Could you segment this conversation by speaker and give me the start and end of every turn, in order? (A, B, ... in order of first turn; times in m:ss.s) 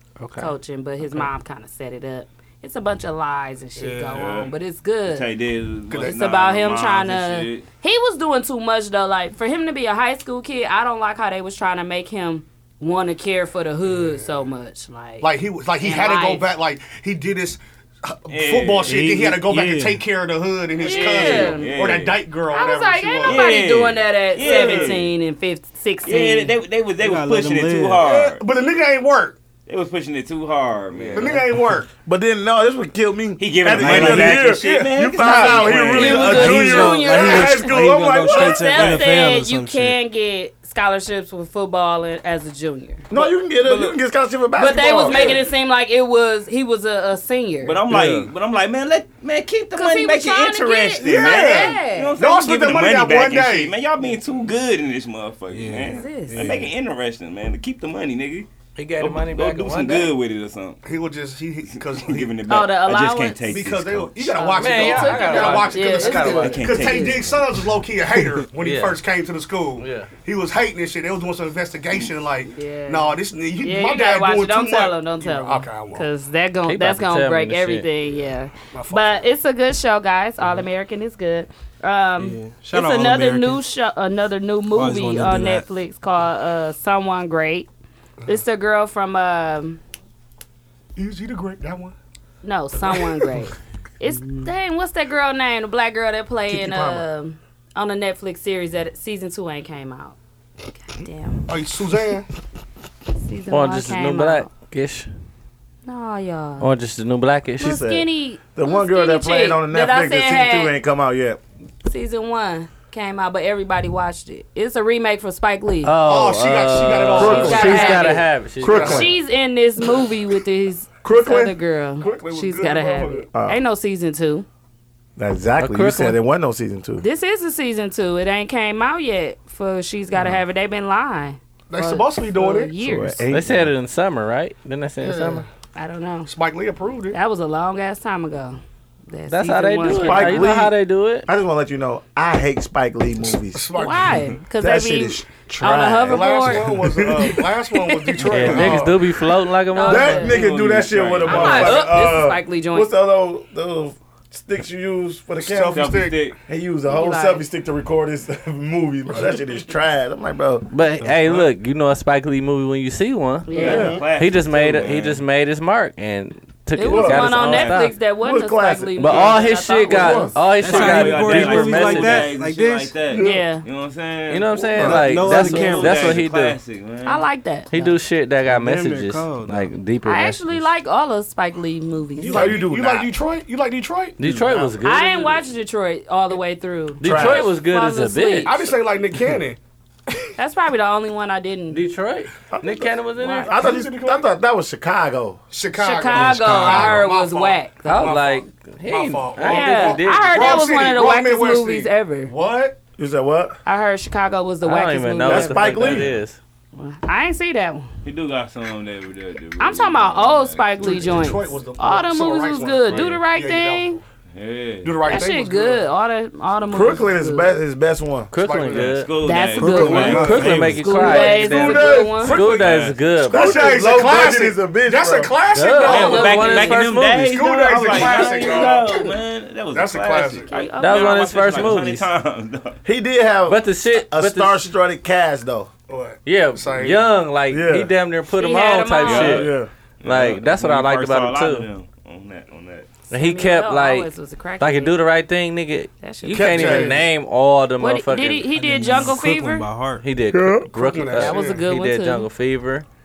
0:00.2-0:00.5 A
0:00.4-0:05.3 B
0:03.8-0:04.2 C
0:04.0-0:04.5 D
0:05.1-0:07.7 D
0:05.9-0:06.2 C
0:06.0-0:16.4 B
0:13.9-0:14.2 C
0:15.2-0:23.5 C
0:18.3-0:19.1 D
0:18.9-0:20.0 E
0:20.8-0:21.8 B
0:20.9-0:21.2 A
0:21.0-0:22.2 D
0:22.5-0:26.6 B
0:23.2-0:25.2 D
0:24.5-0:24.9 C
0:26.0-0:28.4 D
0:27.0-0:28.0 E
0:28.0-0:29.4 C
0:29.7-0:31.5 D
0:30.9-0:31.3 A
0:31.1-0:31.9 C
0:32.1-0:39.0 F
0:33.4-0:36.8 D
0:33.8-0:34.4 E
0:34.4-0:35.0 C
0:35.8-0:43.1 B
0:35.9-0:40.0 E
0:43.1-0:45.4 F
0:43.2-0:44.0 C
0:44.6-0:47.8 B
0:47.6-1:00.8 D
0:47.9-0:48.3 E
0:49.7-0:52.2 B
0:51.0-0:53.7 C
0:55.5-0:56.8 E
0:55.8-0:56.5 B
0:58.8-1:00.1 A
1:00.8-1:02.3 C
1:01.8-1:04.2 D
1:02.5-1:03.5 B
1:03.5-1:16.1 C
1:04.2-1:07.3 B
1:04.6-1:06.7 A
1:06.4-1:07.6 D
1:08.6-1:09.0 A
1:09.8-1:10.1 A
1:12.5-1:27.7 B
1:16.6-1:17.9 A
1:18.7-1:19.3 C
1:22.2-1:23.6 E
1:24.7-1:25.6 E
1:28.3-1:29.8 B
1:31.0-1:32.0 C
1:32.4-1:40.2 B
1:36.5-1:37.0 C
1:40.8-1:41.5 B
1:41.5-1:42.3 C
1:43.2-1:44.5 B
1:43.5-1:45.1 A
1:45.9-1:46.7 B
1:46.6-1:47.7 A
1:47.6-1:51.4 F
1:47.6-1:50.8 B
1:51.8-1:55.9 B
1:55.8-1:59.1 A
1:56.0-1:59.1 C
1:57.2-1:58.0 F
1:57.2-2:04.5 B
1:58.6-1:59.1 F
2:01.0-2:01.6 F
2:02.0-2:03.3 C
2:03.3-2:03.6 F
2:05.2-2:07.0 F
2:05.6-2:06.2 A
2:07.0-2:13.3 B
2:11.7-2:12.7 C
2:12.8-2:13.7 F
2:13.3-2:15.4 A
2:15.0-2:15.4 C
2:15.8-2:16.3 B
2:16.3-2:17.2 C
2:17.1-2:20.6 B
2:19.3-2:21.3 A
2:19.9-2:23.7 F
2:23.5-2:24.2 C
2:23.8-2:26.6 B
2:24.6-2:27.4 F
2:26.1-2:29.0 C
2:28.3-2:30.4 A
2:28.4-2:28.8 D
2:29.7-2:30.5 B
2:29.9-2:40.7 F
2:30.1-2:31.9 D
2:31.2-2:32.9 B
2:35.4-2:36.2 C
2:35.7-2:36.4 D
2:36.9-2:37.4 B
2:40.7-2:48.0 A
2:41.0-2:41.4 E
2:43.5-2:44.0 B
2:43.5-2:45.2 D
2:43.6-2:44.1 F
2:46.7-2:50.4 B
2:46.9-2:47.5 F
2:47.4-2:47.9 D
2:48.0-2:50.4 F
2:49.0-2:52.3 A
2:50.6-2:53.0 E
2:50.6-2:57.3 D
2:53.2-2:53.6 B
2:54.3-2:56.6 A
2:54.8-2:56.2 E
2:57.0-2:58.0 B
2:57.7-3:00.7 A
2:58.4-2:59.7 E
3:00.0-3:02.6 B
3:02.2-3:03.1 F
3:02.2-3:04.2 C
3:04.2-3:05.4 A
3:04.2-3:04.8 F
3:04.8-3:08.6 B
3:07.0-3:08.7 A
3:07.0-3:07.5 F
3:08.5-3:09.6 C
3:10.4-3:11.8 B
3:11.7-3:13.6 A
3:12.5-3:15.4 F
3:13.2-3:13.5 B
3:13.5-3:14.3 C
3:15.5-3:22.8 C
3:15.8-3:18.2 B
3:16.1-3:17.0 E
3:17.9-3:20.7 A
3:19.4-3:22.3 B
3:23.0-3:23.6 F
3:23.7-3:26.0 B
3:24.6-3:26.4 A
3:25.3-3:26.2 F
3:26.8-3:27.9 B
3:28.0-3:31.4 D
3:29.6-3:34.0 B
3:30.8-3:34.0 C
3:32.9-3:33.2 A
3:34.4-3:35.2 D
3:34.8-3:35.8 C
3:35.1-3:37.5 B
3:36.7-3:38.3 F
3:38.3-3:39.3 A
3:38.4-3:39.0 C
3:38.6-3:41.6 D
3:39.2-3:42.4 B
3:39.6-3:40.6 E
3:39.7-3:40.5 F
3:39.8-3:43.8 A
3:41.5-3:42.2 F
3:41.7-3:42.5 C
3:42.1-3:43.1 D
3:43.3-3:45.4 F
3:43.3-3:49.1 C
3:45.5-3:48.5 A
3:45.8-3:52.8 D
3:45.9-3:46.8 B
3:49.7-3:50.5 C
3:50.5-3:51.7 B
3:50.8-3:52.1 A
3:52.8-3:55.7 F
3:53.5-3:54.7 A
3:55.9-3:57.0 C
3:56.2-4:01.7 A
3:57.5-3:57.9 F
3:58.3-3:59.4 B
3:59.0-4:03.0 D
3:59.2-3:59.7 F
4:03.1-4:09.0 A
4:03.1-4:05.0 B
4:06.0-4:06.9 B
4:06.3-4:07.0 C
4:07.8-4:09.7 B
4:08.6-4:10.0 E
4:10.0-4:12.9 A
4:10.3-4:10.7 F
4:10.7-4:11.6 C
4:11.2-4:12.3 B